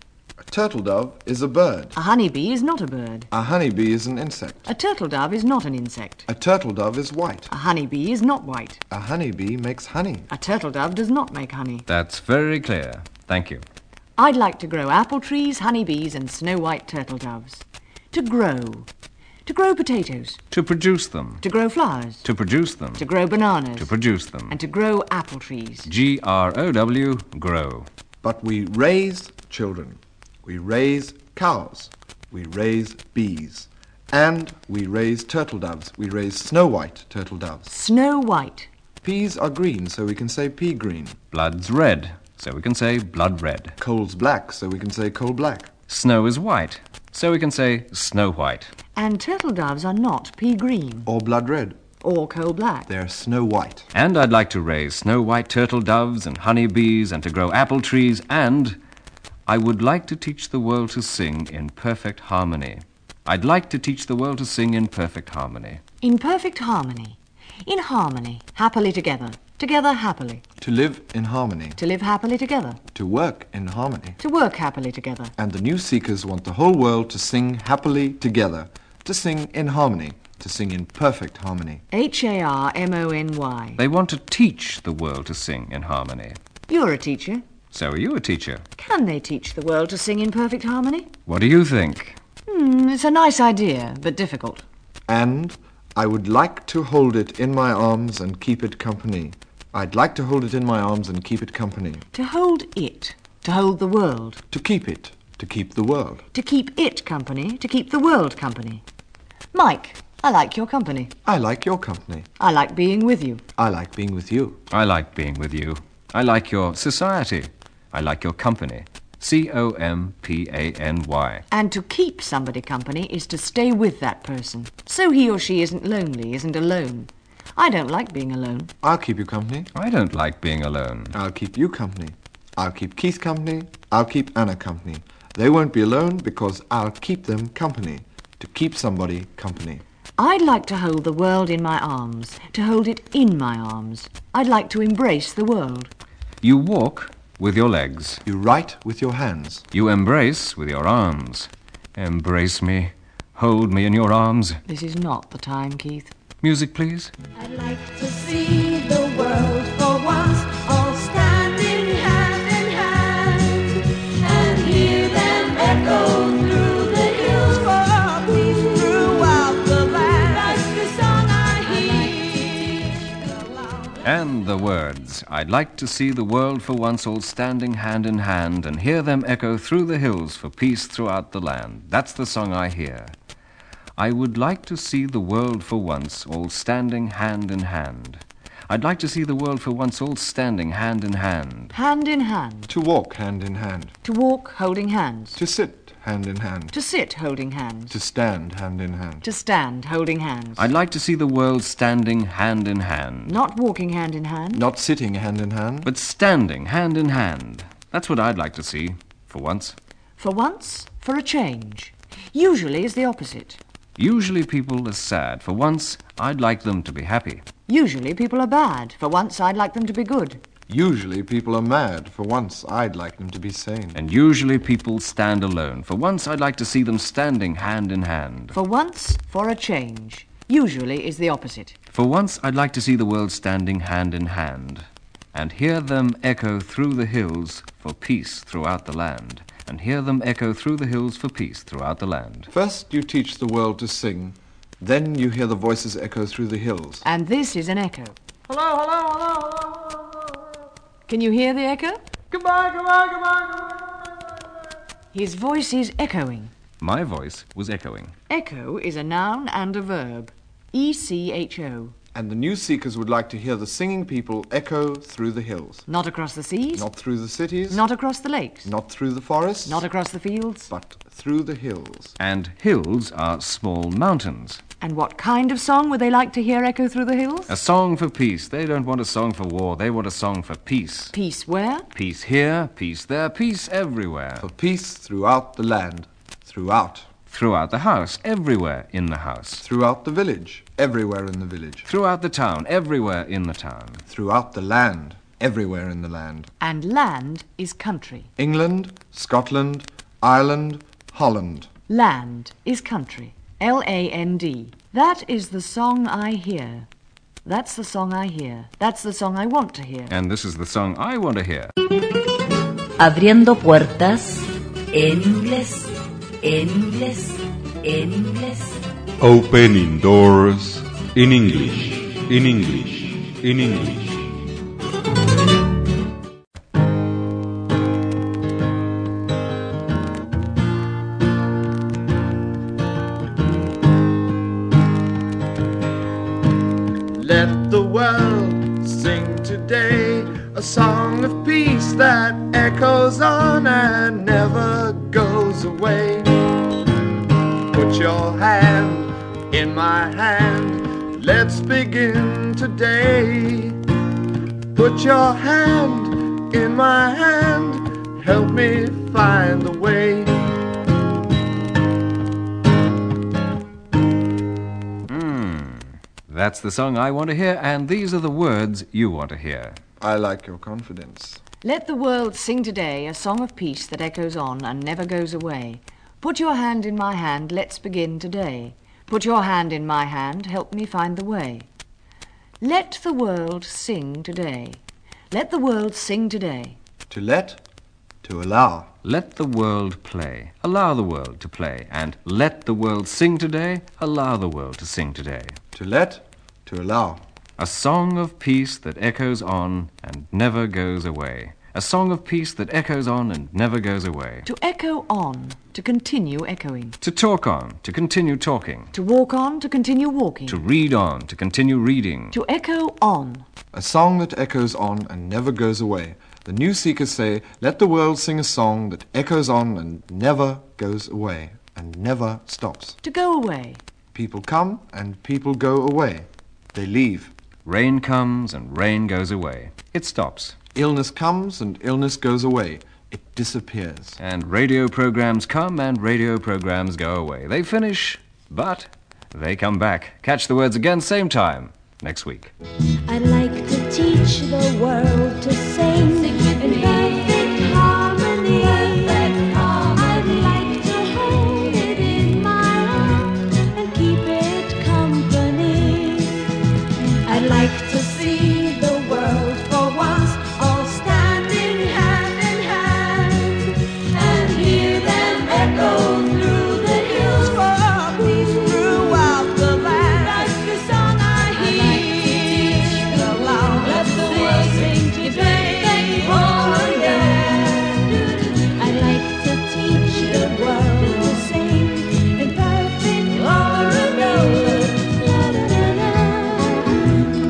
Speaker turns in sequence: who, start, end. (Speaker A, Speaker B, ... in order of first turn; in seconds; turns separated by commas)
Speaker A: 0.5-1.9, Speaker B: 1.9-3.3, Speaker A: 3.3-4.7, Speaker B: 4.7-6.3, Speaker A: 6.3-7.5, Speaker B: 7.5-8.8, Speaker A: 8.9-10.3, Speaker B: 10.3-11.8, Speaker C: 11.9-13.6, Speaker B: 14.2-18.9, Speaker B: 19.5-20.4, Speaker C: 20.5-21.4, Speaker B: 21.4-22.2, Speaker C: 22.2-23.1, Speaker B: 23.0-23.9, Speaker C: 23.8-24.6, Speaker B: 24.5-25.9, Speaker C: 25.9-27.9, Speaker A: 28.2-37.7, Speaker B: 37.7-38.7, Speaker A: 39.0-41.2, Speaker C: 41.3-43.8, Speaker A: 43.8-45.7, Speaker C: 45.9-48.7, Speaker B: 49.0-51.1, Speaker A: 51.1-51.8, Speaker B: 52.0-52.9, Speaker A: 52.9-53.9, Speaker C: 53.9-58.8, Speaker C: 59.5-65.8, Speaker B: 66.0-70.4, Speaker A: 70.6-71.8, Speaker B: 71.8-72.8, Speaker A: 73.0-74.2, Speaker B: 74.2-75.3, Speaker A: 75.4-81.8, Speaker B: 81.9-83.8, Speaker C: 83.8-86.4, Speaker B: 86.7-87.4, Speaker C: 87.7-88.6, Speaker B: 88.8-91.1, Speaker C: 91.3-92.2, Speaker B: 92.5-94.6, Speaker A: 95.1-102.0, Speaker B: 102.1-104.4, Speaker A: 104.5-106.2, Speaker B: 106.3-108.8, Speaker B: 109.5-111.1, Speaker A: 111.2-112.3, Speaker B: 112.4-113.4, Speaker A: 113.6-114.6, Speaker C: 114.7-121.4, Speaker B: 121.5-128.7, Speaker A: 128.8-129.7, Speaker C: 129.7-131.2, Speaker A: 131.1-139.8, Speaker B: 140.2-145.9, Speaker C: 146.4-148.2, Speaker A: 148.2-149.7, Speaker C: 149.7-154.6, Speaker B: 154.7-156.1, Speaker C: 156.4-157.1, Speaker D: 157.4-174.0, Speaker C: 174.0-183.2, Speaker C: 184.0-191.7, Speaker B: 191.7-192.7, Speaker A: 192.7-193.9, Speaker B: 194.0-195.4, Speaker A: 195.4-196.7, Speaker B: 196.7-197.9, Speaker A: 197.9-199.2, Speaker B: 199.2-200.7, Speaker C: 200.6-203.3, Speaker B: 203.3-204.7, Speaker A: 204.5-205.9, Speaker C: 205.8-209.8, Speaker B: 210.2-213.6, Speaker C: 214.0-217.4, Speaker B: 217.7-220.4, Speaker A: 220.7-224.0, Speaker C: 223.9-228.6, Speaker B: 228.5-231.8, Speaker C: 231.9-242.5, Speaker A: 242.5-247.0, Speaker B: 247.0-248.2, Speaker A: 248.5-250.3, Speaker B: 251.1-252.0, Speaker A: 252.3-254.2, Speaker B: 255.1-256.5, Speaker C: 256.8-258.1, Speaker B: 258.3-261.9, Speaker A: 262.1-265.8, Speaker B: 265.9-266.9, Speaker A: 266.8-267.8, Speaker B: 267.7-268.7, Speaker A: 268.6-269.8, Speaker B: 269.6-270.7, Speaker A: 270.7-272.2, Speaker C: 272.2-274.6, Speaker B: 274.8-277.5, Speaker C: 277.5-281.1, Speaker B: 281.1-281.9, Speaker C: 281.9-284.5, Speaker A: 284.4-287.1, Speaker C: 287.3-289.6, Speaker A: 289.6-291.9, Speaker C: 291.9-294.0, Speaker A: 294.1-296.5, Speaker B: 296.6-298.3, Speaker A: 298.4-301.7, Speaker B: 301.9-306.9, Speaker B: 307.4-310.1, Speaker C: 310.1-311.7, Speaker E: 313.0-318.8, Speaker F: 319.2-324.3, Speaker A: 337.1-346.4, Speaker A: 347.7-353.8, Speaker A: 354.7-360.4, Speaker C: 365.1-369.8, Speaker A: 370.0-371.4, Speaker B: 371.6-381.7, Speaker B: 382.6-386.8, Speaker A: 387.1-387.6, Speaker A: 388.2-388.9, Speaker C: 389.0-395.6, Speaker A: 395.7-397.2, Speaker C: 397.6-404.5, Speaker B: 404.4-407.0, Speaker C: 407.0-408.9, Speaker B: 408.9-410.6, Speaker C: 410.5-412.4, Speaker B: 412.3-413.4, Speaker A: 413.7-423.0, Speaker B: 423.0-423.8, Speaker A: 424.1-427.3, Speaker C: 427.6-430.6, Speaker A: 430.8-434.2, Speaker C: 434.2-442.5, Speaker D: 443.1-456.5, Speaker D: 457.3-487.3